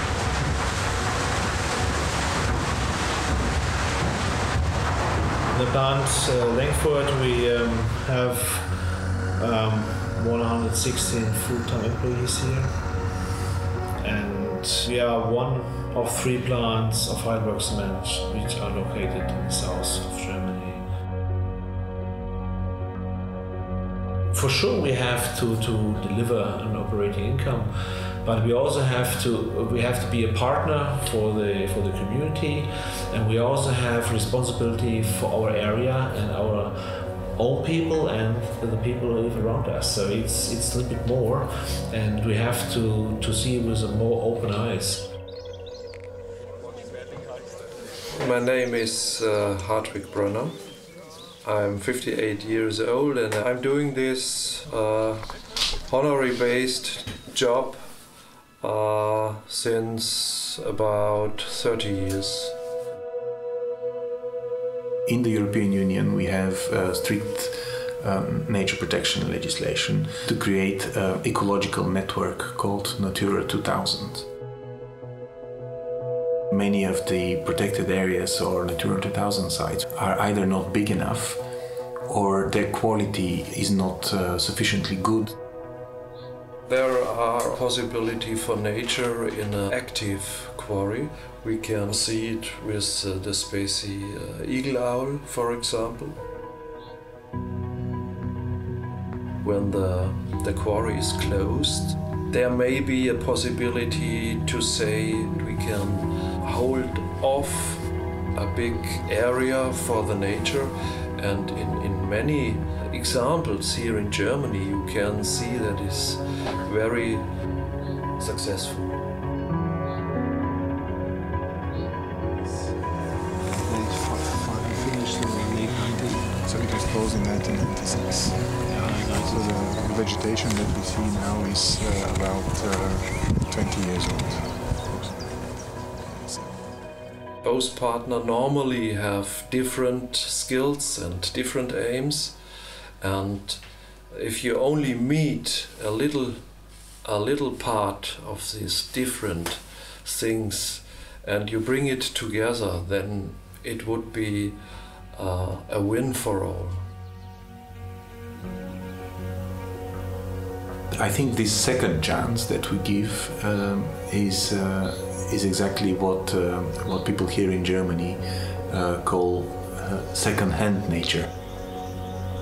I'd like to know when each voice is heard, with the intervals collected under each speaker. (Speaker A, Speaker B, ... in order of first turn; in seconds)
Speaker A: 5.5-12.8, 14.0-20.8, 24.3-45.0, 123.6-126.3, 128.6-129.8
Speaker B: 48.1-50.6, 51.4-55.3, 55.8-58.0, 58.6-62.5, 86.7-96.2, 99.4-117.3, 118.2-118.9, 137.4-142.4, 143.0-156.8
Speaker C: 65.1-74.3, 76.5-81.4, 82.0-85.3, 160.9-171.3
Speaker D: 126.4-135.4